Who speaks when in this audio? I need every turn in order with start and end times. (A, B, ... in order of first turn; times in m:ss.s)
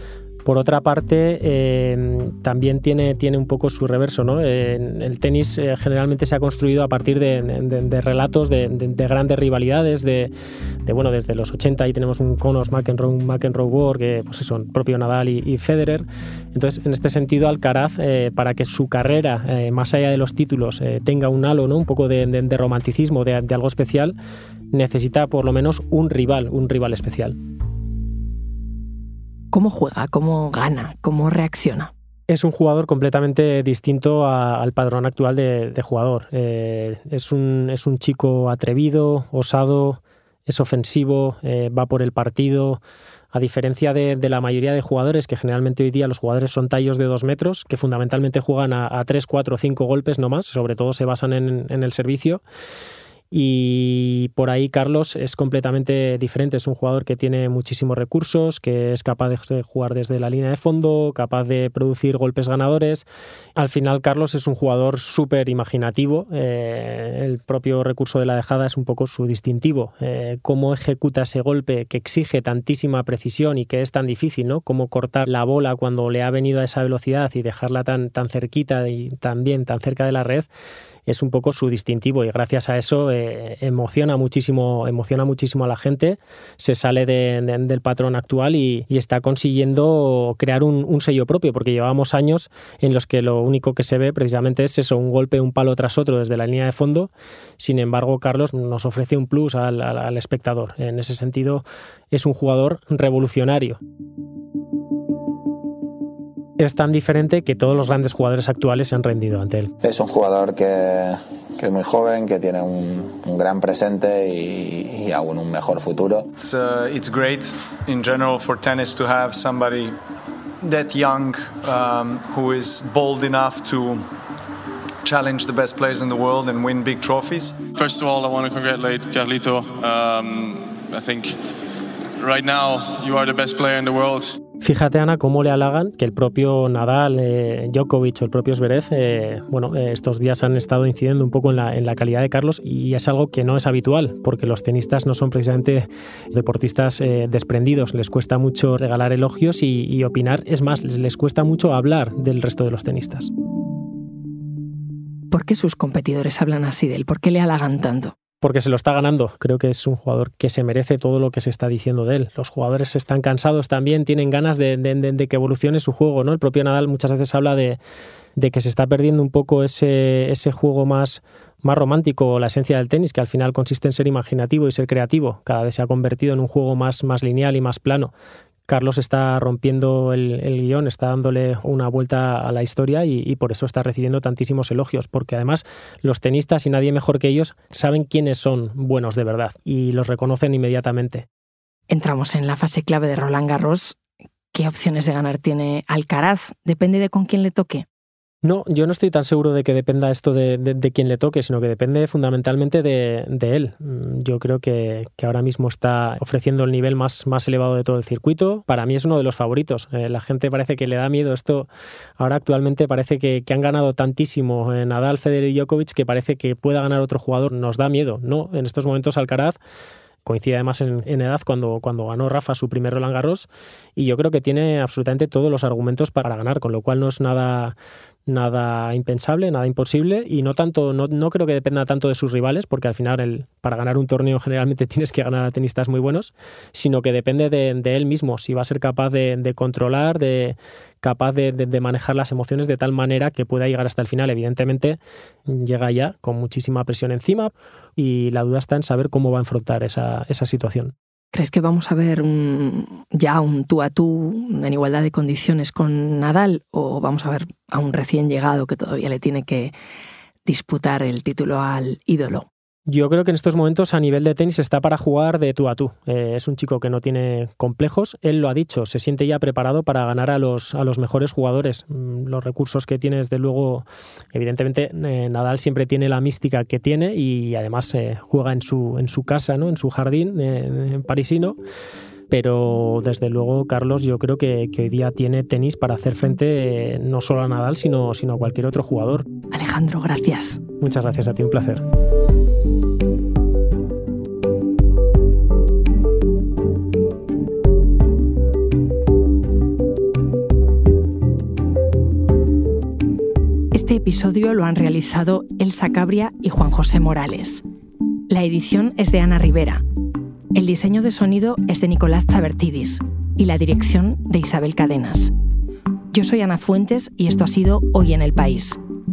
0:00.4-0:10.3 A
0:10.8-0:24.1 A
0:24.7-0:27.4 A
0:29.5-0:31.9 B
0:32.3-0:42.8 A
0:43.3-0:52.4 A
0:53.3-1:20.5 A
1:21.1-1:43.8 A
1:46.6-1:49.7 A
1:49.8-1:56.3 C
1:56.3-2:00.0 D
2:00.6-2:04.1 D
2:05.0-2:07.6 D
2:07.7-2:11.4 E
2:12.2-2:14.4 E
2:14.6-2:33.3 A
2:35.3-2:38.1 B
2:38.4-2:47.8 A
2:48.4-2:58.1 A
2:58.7-3:11.2 A
3:11.9-3:14.0 B
3:14.5-3:17.8 B
3:18.4-3:39.6 A
3:40.2-3:47.8 A
3:48.3-4:10.9 A
4:11.3-4:19.7 B
4:20.4-4:22.5 B
4:22.9-4:41.6 A
4:42.3-4:49.3 A
4:49.5-4:50.6 B
4:50.8-4:51.8 A
5:03.7-5:07.6 B
5:08.3-5:09.8 B
5:10.5-5:15.3 B
5:16.1-5:18.8 B